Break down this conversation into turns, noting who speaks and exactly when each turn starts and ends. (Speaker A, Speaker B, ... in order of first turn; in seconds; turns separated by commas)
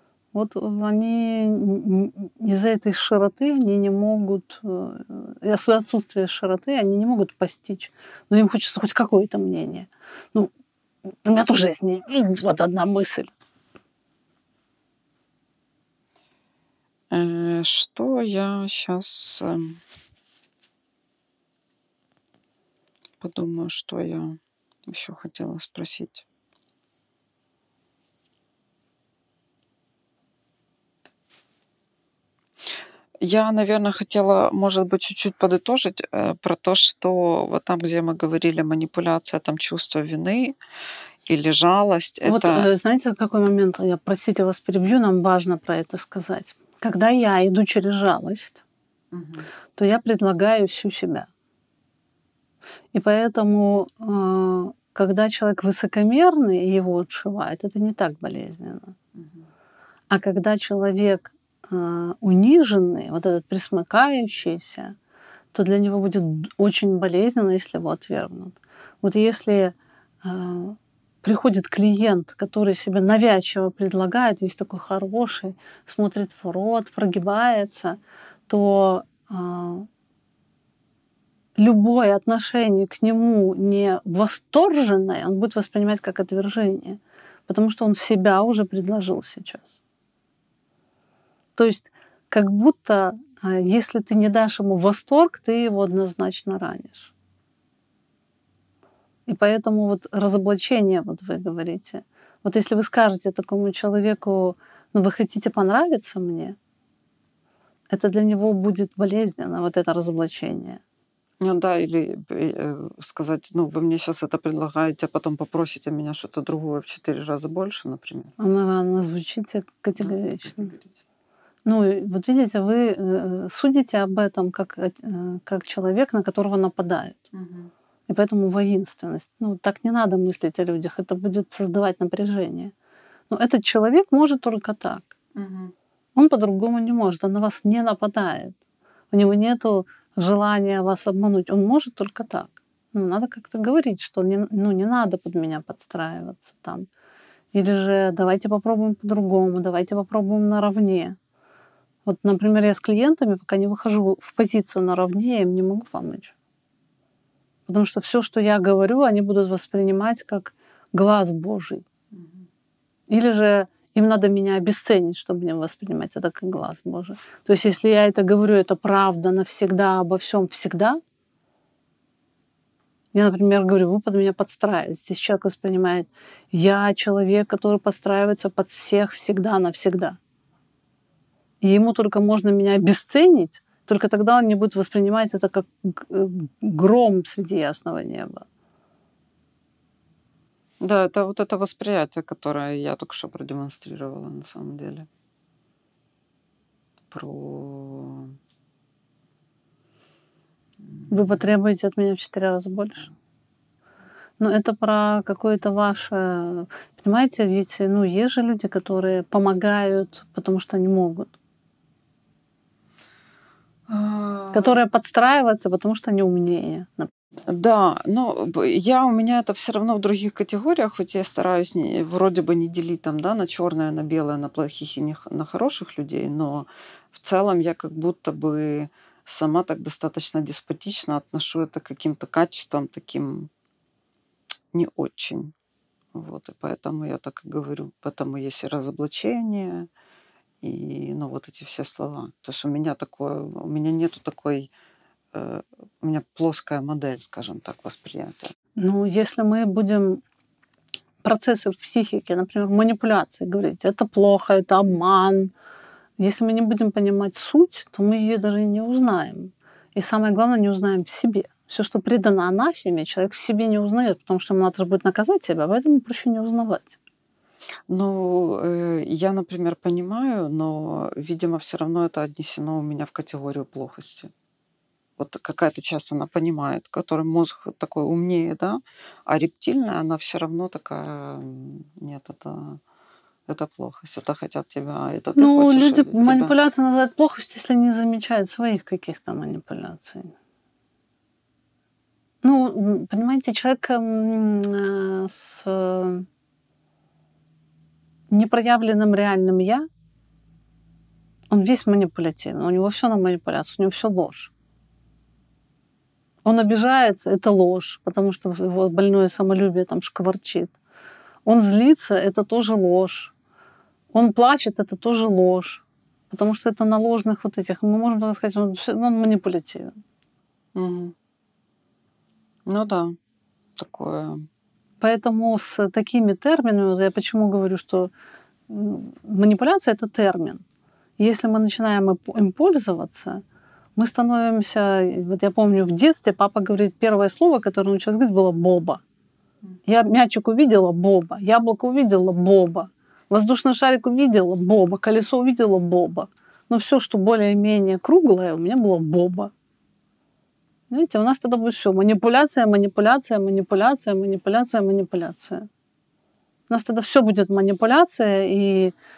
Speaker A: 0.3-10.5, Speaker A: 11.2-13.3, Speaker B: 17.1-19.8, Speaker B: 23.2-26.2, Speaker B: 33.2-40.6, Speaker B: 41.2-42.7, Speaker A: 42.2-48.6, Speaker B: 49.1-49.5, Speaker A: 49.8-51.3, Speaker A: 52.9-58.9, Speaker B: 59.1-59.5, Speaker A: 60.1-64.9, Speaker A: 65.5-79.9, Speaker A: 81.6-89.8, Speaker A: 91.5-97.1, Speaker A: 99.3-106.5, Speaker A: 107.9-110.8, Speaker B: 111.4-118.3, Speaker A: 118.4-120.7, Speaker B: 120.0-121.0, Speaker A: 121.6-127.2, Speaker B: 127.3-127.7, Speaker A: 128.1-132.7, Speaker A: 133.3-135.1, Speaker B: 135.3-135.7, Speaker A: 136.1-138.6, Speaker A: 139.1-146.9, Speaker A: 147.5-151.2, Speaker A: 152.1-156.3, Speaker A: 157.7-161.8, Speaker B: 162.1-162.4, Speaker A: 163.1-171.0, Speaker A: 173.1-180.2, Speaker A: 181.6-188.4, Speaker B: 190.8-195.1, Speaker B: 197.1-198.3, Speaker B: 200.9-201.4, Speaker A: 201.1-203.1, Speaker A: 204.4-211.3, Speaker B: 213.9-214.8, Speaker A: 214.5-217.1, Speaker B: 217.5-233.5, Speaker B: 234.7-235.5, Speaker B: 236.1-239.9, Speaker B: 240.6-244.7, Speaker B: 245.3-248.5, Speaker A: 248.8-250.2, Speaker A: 251.2-255.5, Speaker A: 256.2-266.9, Speaker B: 267.9-274.3, Speaker B: 275.2-282.8, Speaker B: 283.5-286.5, Speaker A: 285.4-290.3, Speaker A: 292.4-296.2, Speaker A: 298.3-299.9, Speaker A: 301.5-304.5, Speaker A: 306.4-310.7, Speaker A: 311.4-313.3, Speaker A: 314.1-320.0, Speaker B: 320.7-321.1, Speaker B: 322.7-323.1, Speaker B: 323.8-324.4, Speaker A: 325.0-328.1, Speaker A: 328.7-330.6, Speaker A: 331.2-333.4, Speaker A: 333.9-339.0, Speaker A: 339.9-349.5, Speaker A: 350.9-355.7, Speaker A: 356.7-358.9